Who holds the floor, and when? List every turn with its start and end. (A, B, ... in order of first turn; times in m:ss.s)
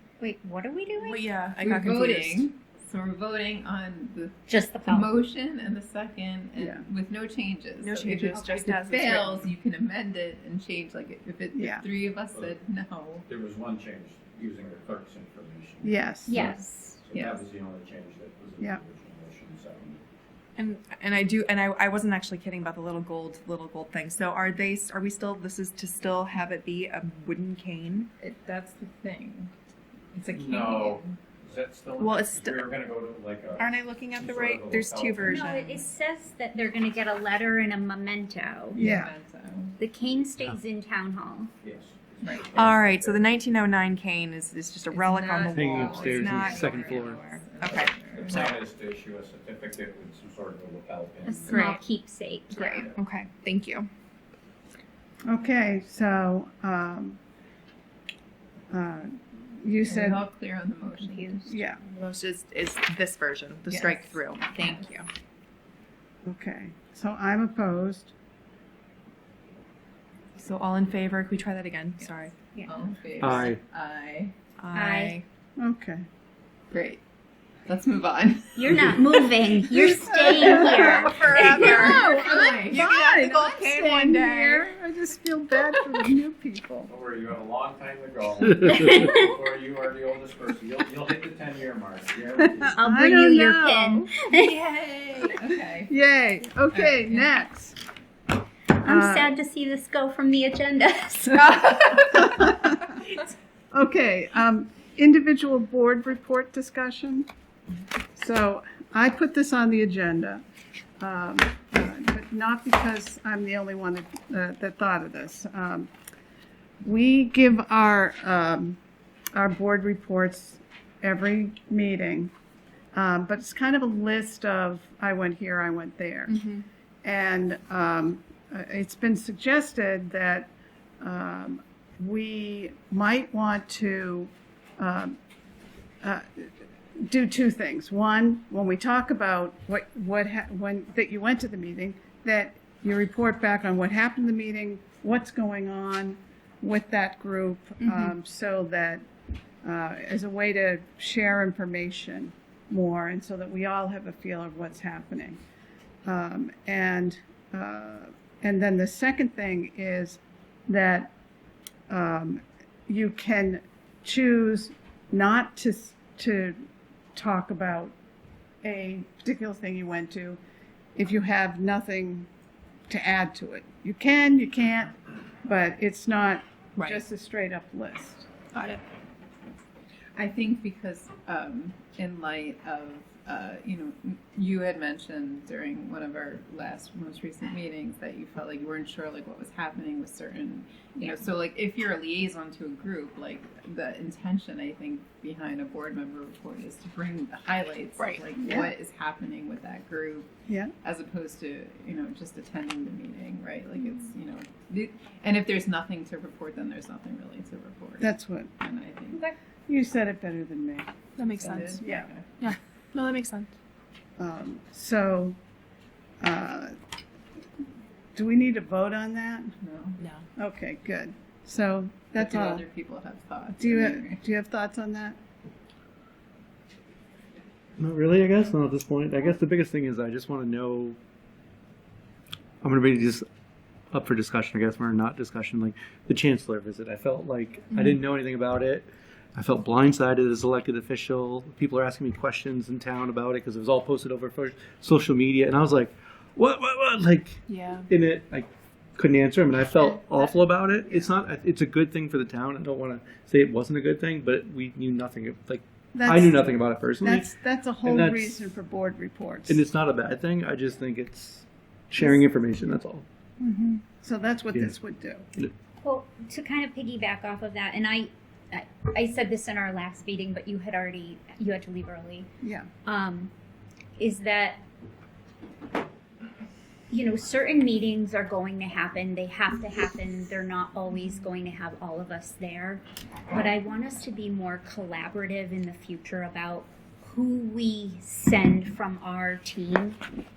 0:00.2-0:01.3 A
0:01.0-0:02.5 B
0:01.6-0:13.3 C
0:04.5-0:05.1 A
0:06.6-0:06.8 D
0:07.8-0:09.5 B
0:11.5-0:11.9 D
0:12.3-0:12.6 E
0:13.3-0:20.0 E
0:15.8-0:16.5 D
0:16.3-0:17.0 A
0:17.1-0:17.4 C
0:20.6-0:28.1 B
0:28.2-0:29.5 C
0:30.1-0:31.2 C
0:30.3-0:35.6 E
0:32.0-0:32.7 B
0:33.6-0:35.9 B
0:35.3-0:38.8 A
0:38.7-0:39.8 C
0:38.8-0:39.1 D
0:39.8-0:41.5 A
0:41.6-0:43.3 E
0:42.6-0:48.4 B
0:44.9-0:48.6 C
0:45.5-0:47.2 F
0:48.1-0:51.7 E
0:51.2-0:52.9 A
0:51.5-0:51.8 B
0:52.5-0:53.9 B
0:55.3-0:57.2 D
0:58.7-1:00.2 D
0:59.9-1:01.6 C
1:01.0-1:01.4 A
1:01.5-1:01.8 D
1:01.9-1:05.1 B
1:03.7-1:04.9 C
1:06.2-1:08.1 D
1:10.4-1:12.3 B
1:12.6-1:14.3 C
1:13.2-1:13.6 F
1:14.6-1:15.2 B
1:14.7-1:15.2 A
1:15.6-1:16.1 D
1:16.7-1:17.0 C
1:17.6-1:19.2 C
1:18.6-1:22.2 A
1:19.8-1:26.9 D
1:19.8-1:22.9 C
1:22.7-1:24.7 B
1:26.9-1:32.8 E
1:28.8-1:29.1 A
1:32.4-1:34.1 D
1:32.8-1:34.5 A
1:34.3-1:35.9 C
1:35.9-1:37.8 D
1:36.7-1:37.4 C
1:38.7-1:41.6 A
1:38.8-1:39.4 D
1:41.5-1:43.0 D
1:43.7-1:47.3 D
1:48.2-1:50.4 D
1:51.0-1:55.9 D
1:56.8-1:58.8 D
1:59.4-2:02.3 D
2:02.9-2:06.4 D
2:06.3-2:06.6 B
2:07.0-2:15.2 D
2:16.0-2:29.0 D
2:27.8-2:28.1 B
2:29.6-2:35.4 D
2:36.0-2:41.1 D
2:41.9-2:46.6 D
2:47.2-2:48.0 D
2:48.6-2:50.4 D
2:51.0-2:52.3 D
2:52.9-2:58.3 D
2:58.6-2:58.8 B
3:00.2-3:20.3 C
3:18.4-3:18.7 D
3:20.5-3:20.7 D
3:20.8-3:29.3 C
3:28.0-3:28.6 D
3:29.7-3:30.9 D
3:31.2-3:31.9 B
3:31.4-3:32.3 C
3:31.4-3:32.1 D
3:32.4-3:33.5 B
3:34.2-3:35.4 D
3:36.2-3:36.8 D
3:38.2-3:39.5 D
3:39.6-3:40.0 C
3:40.0-3:40.2 B
3:40.4-3:42.6 D
3:42.2-3:44.2 C
3:43.6-3:45.2 D
3:47.8-3:51.0 F
3:52.6-3:53.2 F
3:53.9-4:18.4 F
4:07.5-4:07.9 B
4:10.9-4:11.1 D
4:15.9-4:19.6 D
4:19.5-4:23.0 F
4:23.4-4:25.3 D
4:25.8-4:32.3 A
4:32.4-4:32.7 D
4:32.9-4:33.3 A
4:34.0-4:34.6 A
4:36.9-4:50.0 A